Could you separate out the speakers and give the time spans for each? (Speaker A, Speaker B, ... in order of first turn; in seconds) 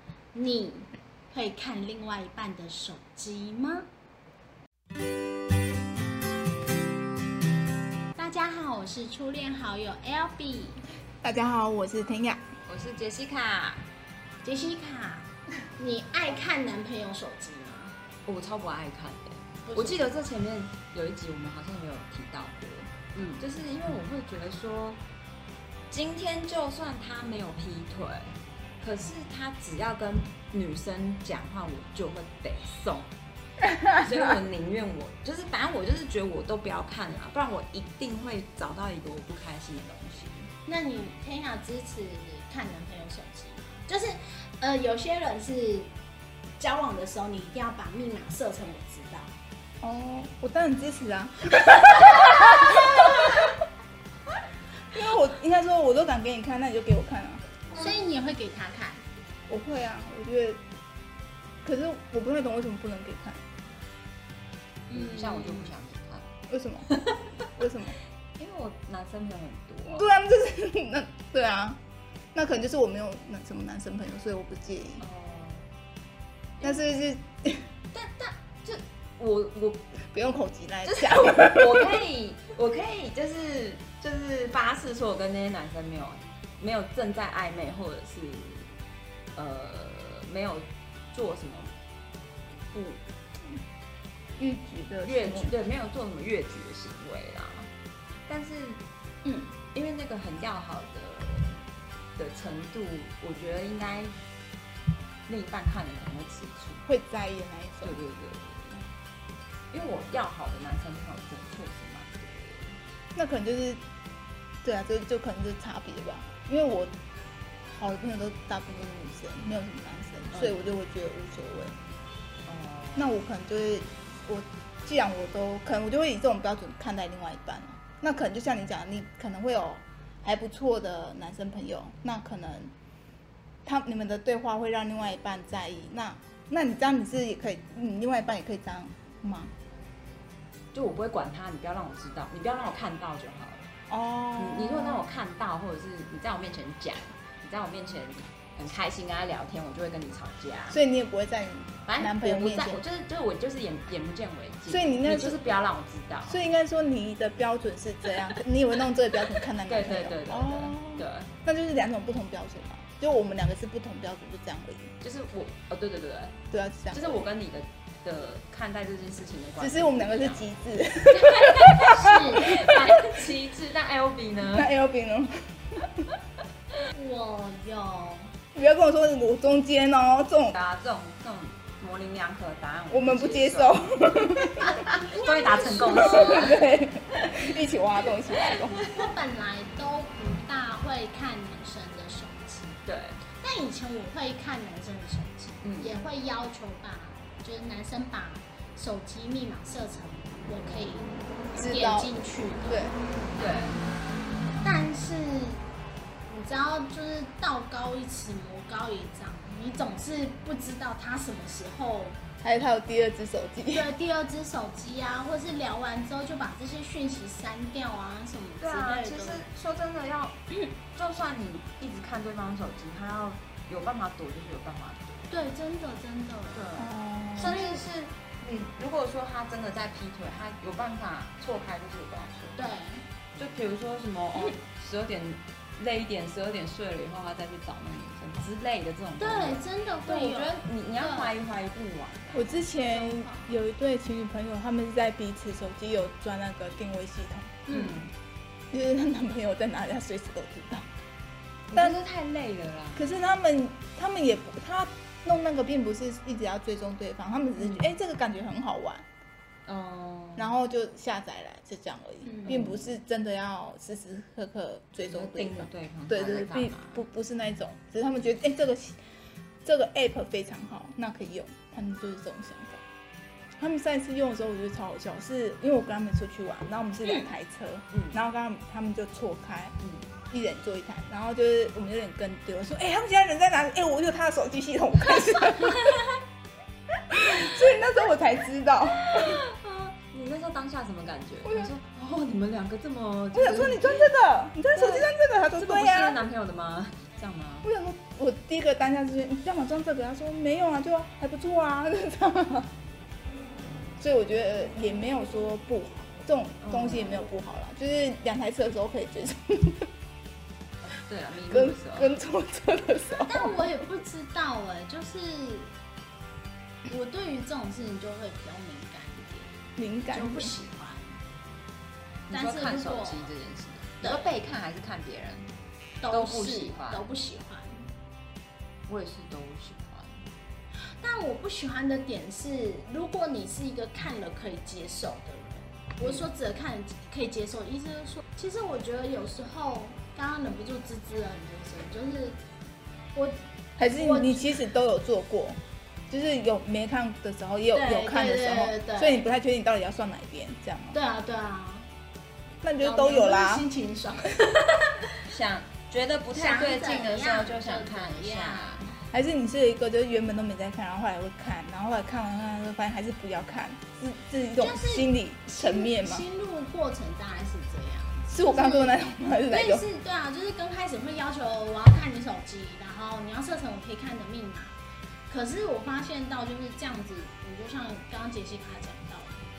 Speaker A: 0.3-3.9, 8.2-10.8, 14.4-17.9, 19.6-20.0, 40.7-45.9, 46.6-49.4, 57.7-59.0, 64.9-65.7, 99.2-99.5, 171.7-172.6, 176.9-178.3, 184.8-186.5, 188.8-192.8, 193.3-202.9, 204.6-205.6, 206.3-212.2, 213.7-219.4, 225.3-226.7, 227.4-227.8, 232.6-233.0, 239.2-241.3, 242.8-243.5, 247.7-248.1, 262.2-262.6, 313.2-315.7, 316.9-319.6, 320.1-321.2, 322.3-323.3, 326.0-327.9, 330.9-342.4, 343.1-344.5, 347.7-349.2, 350.9-351.9, 352.8-355.1, 356.3-358.9, 364.6-368.9, 369.5-374.7, 375.3-379.4
Speaker B: 11.2-12.4, 33.6-34.3, 49.8-53.5, 54.9-57.4, 59.5-60.6, 61.6-63.5, 66.5-66.9, 67.6-68.0, 69.9-71.8, 72.3-75.0, 76.6-77.7, 80.1-82.0, 94.4-95.5, 106.9-108.0, 113.1-113.8, 114.6-116.9, 117.7-121.8, 123.0-132.7, 133.6-139.5, 143.9-145.0, 150.7-152.8, 154.7-155.4, 156.2-164.9, 166.5-167.2, 169.6-173.3, 174.4-175.8, 178.5-180.5, 182.9-184.8, 185.9-188.8, 201.5-202.1, 202.7-202.9, 212.4-213.9, 226.8-227.7, 242.3-247.6, 248.7-250.9, 252.9-259.0, 260.4-269.0, 269.6-272.8, 273.6-279.7, 280.3-286.0, 287.1-289.4, 291.4-291.7, 293.3-296.2, 297.6-302.7, 304.0-309.9, 311.5-313.6, 319.8-320.5, 343.8-345.6, 346.1-351.0, 352.6-353.6, 359.1-366.2, 368.3-369.8
Speaker C: 12.7-13.9, 18.2-25.0, 25.9-33.1, 33.9-40.5, 64.9-66.3, 66.9-67.7, 68.4-70.1, 75.0-75.7, 77.9-79.8, 80.8-88.7, 89.3-91.7, 92.7-93.0, 95.0-97.7, 98.3-98.8, 99.7-101.6, 102.2-104.1, 105.3-106.8, 107.8-108.8, 109.7-112.8, 120.3-120.7, 122.5-123.1, 140.7-143.7, 144.4-150.8, 151.9-156.4, 159.7-161.3, 165.0-166.4, 166.9-170.4, 171.1-174.7, 180.5-183.9, 184.6-187.5, 188.3-189.0, 192.8-193.2, 195.6-196.0, 203.3-203.8, 218.6-220.4, 220.9-225.3, 226.5-232.6, 233.3-242.6, 247.7-248.1, 251.7-253.1, 259.6-260.6, 262.4-262.7, 265.0-267.0, 277.9-278.2, 279.8-280.1, 289.1-294.1, 294.6-297.7, 306.6-307.3, 310.8-312.2, 322.3-325.5, 326.1-327.1, 328.9-330.3, 355.2-358.9